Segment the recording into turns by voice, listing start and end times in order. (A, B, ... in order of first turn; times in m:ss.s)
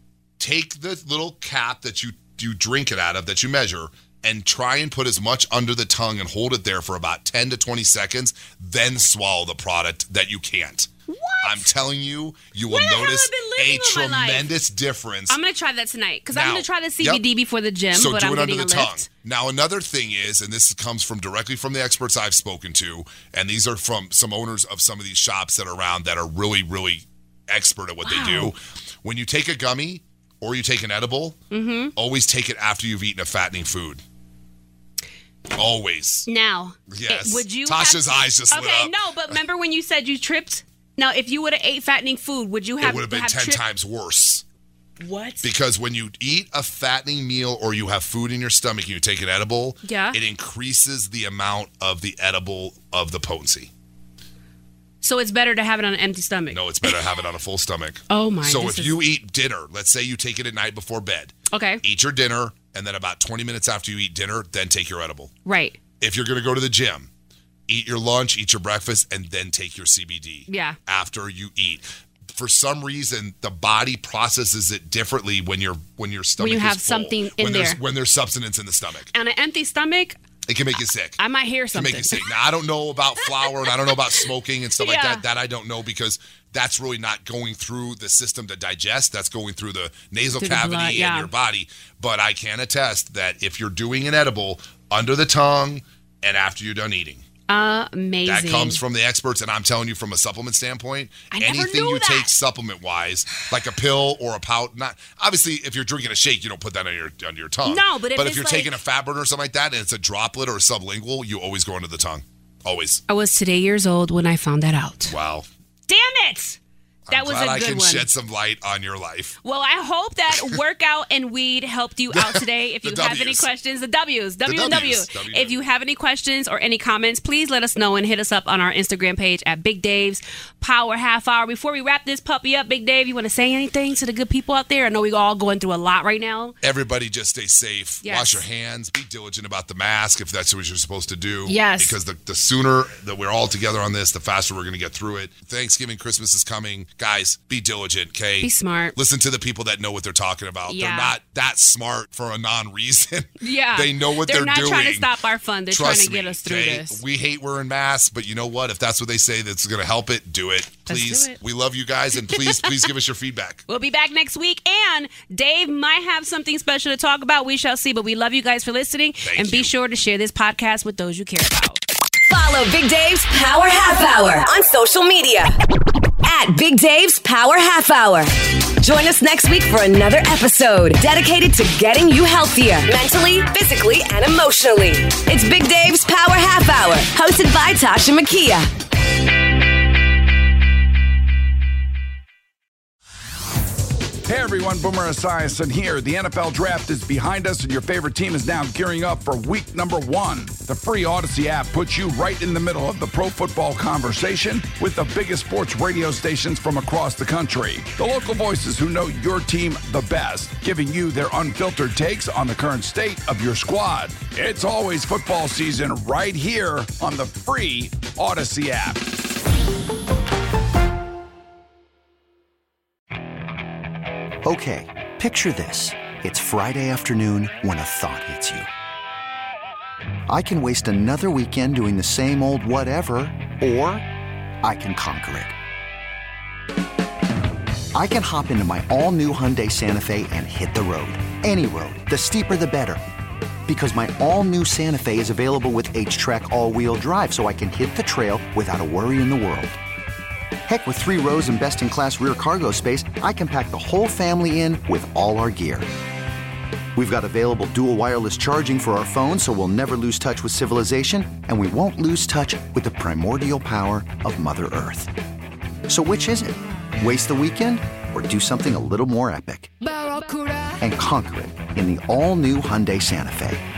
0:00.4-0:10.9 A
0:11.1-0:11.7 B
0:11.4-0:15.4 A
0:12.7-0:14.5 B
0:15.3-0:19.0 B
0:16.3-0:17.2 A
0:17.9-0:31.4 A
0:28.0-0:28.5 B
0:31.5-0:31.9 B
0:32.0-0:34.0 A
0:35.6-0:36.3 A
0:36.2-0:43.6 B
0:36.9-0:39.3 A
0:42.8-0:44.4 A
0:45.0-0:45.5 B
0:45.4-0:53.7 A
0:49.8-0:50.2 B
0:55.0-0:57.0 B
0:56.5-1:05.3 A
0:58.1-0:59.0 B
1:01.5-1:01.8 B
1:05.4-1:05.8 B
1:06.0-1:07.1 A
1:07.7-1:19.1 A
1:10.5-1:10.8 B
1:16.4-1:17.8 B
1:19.1-1:20.2 B
1:20.5-1:21.2 A
1:21.2-1:22.3 B
1:21.7-1:37.2 A
1:23.4-1:23.9 B
1:24.8-1:25.2 B
1:30.4-1:31.3 B
1:37.5-1:38.8 B
1:38.2-1:53.0 A
1:41.3-1:42.3 B
1:47.6-1:48.7 B
1:53.1-1:55.1 B
1:55.1-1:55.5 A
1:55.9-1:56.6 B
1:57.1-1:59.4 A
1:57.1-1:58.0 B
1:59.4-2:16.5 B
2:02.1-2:03.5 A
2:04.4-2:05.6 A
2:16.6-2:35.1 A
2:18.0-2:18.4 B
2:21.5-2:21.9 B
2:28.4-2:28.9 B
2:30.7-2:31.1 B
2:33.4-2:37.0 B
2:35.7-2:43.6 A
2:40.9-2:41.4 B
2:42.3-2:42.7 B
2:43.7-2:51.8 B
2:49.2-2:49.7 A
2:52.3-2:55.6 C
2:56.2-3:08.7 C
3:14.2-3:39.2 D
3:44.4-3:48.7 E
3:50.3-3:54.1 E
3:54.6-3:55.5 E
3:57.9-4:03.0 E
4:03.6-4:09.8 E
4:10.7-4:15.9 E
4:16.9-4:25.1 E
4:25.9-4:30.2 E
4:30.8-4:33.6 E